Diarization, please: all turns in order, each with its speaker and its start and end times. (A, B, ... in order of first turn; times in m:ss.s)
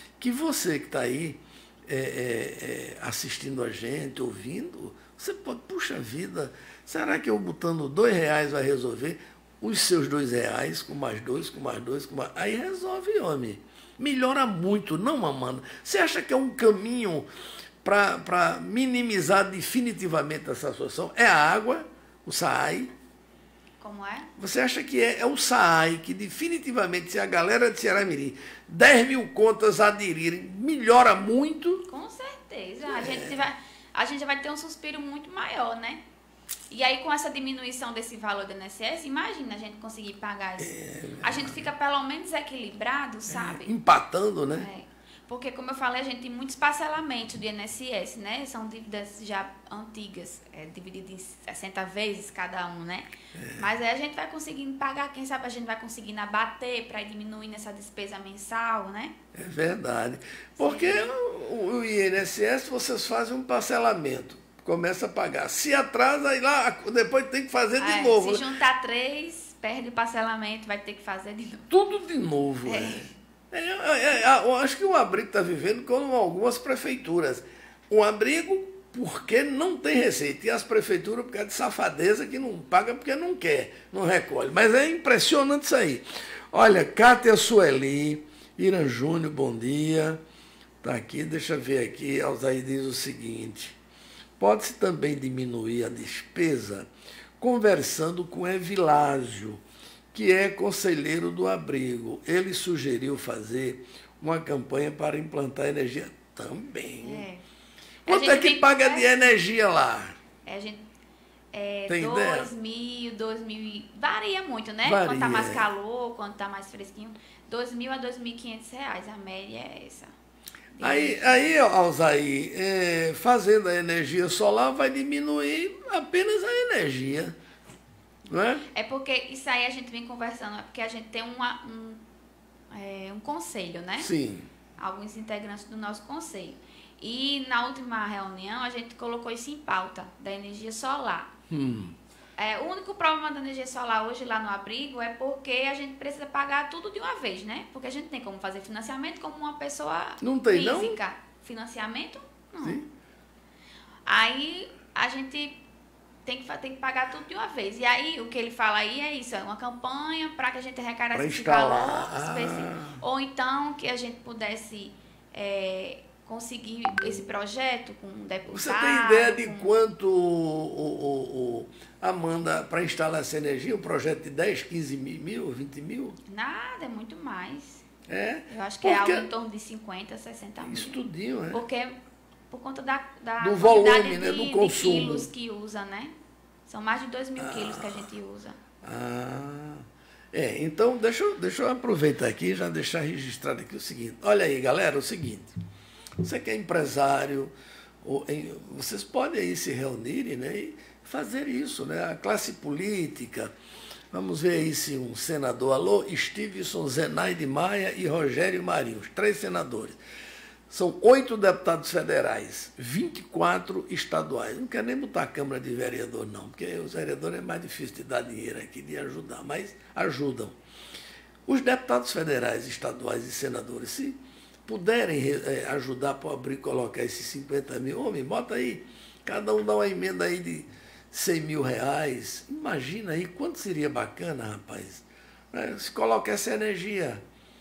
0:00.2-0:17.3 A
0:17.8-0:22.9 A
0:23.8-0:24.3 B
0:24.4-0:31.8 A
0:31.9-0:36.0 B
0:32.8-0:33.4 A
0:36.7-0:43.7 B
0:40.6-0:41.7 A
0:43.3-0:44.7 A
0:44.5-0:59.1 B
0:53.3-0:53.7 A
0:59.3-1:08.4 A
1:00.6-1:01.1 B
1:07.8-1:11.7 B
1:11.7-1:30.2 A
1:12.6-1:13.1 B
1:30.8-1:33.8 A
1:34.4-1:36.9 A
1:37.4-1:39.6 A
1:40.1-1:47.2 A
1:47.0-1:47.4 B
1:48.0-1:49.1 B
1:48.1-1:50.1 A
1:50.4-1:50.8 B
1:51.5-2:00.1 B
1:51.9-1:52.5 A
1:54.8-1:55.7 A
2:00.8-2:01.6 B
2:00.8-2:07.4 A
2:08.3-2:08.6 A
2:08.7-2:12.0 B
2:12.7-2:14.1 B
2:14.0-2:14.5 A
2:14.8-2:21.3 B
2:21.5-2:22.0 A
2:22.4-2:32.8 B
2:30.2-2:31.0 A
2:34.0-2:35.6 B
2:36.2-2:49.7 B
2:41.1-2:43.0 A
2:48.5-2:56.2 A
2:56.3-2:57.8 B
2:58.1-2:59.3 A
2:58.5-3:01.0 B
3:00.6-3:01.6 A
3:01.5-3:02.0 B
3:02.5-3:06.1 B
3:03.4-3:05.3 A
3:06.6-3:08.6 B
3:07.4-3:08.1 A
3:08.8-3:15.5 A
3:16.2-3:23.5 A
3:24.1-3:30.0 A
3:30.7-3:40.6 A
3:41.5-3:57.2 A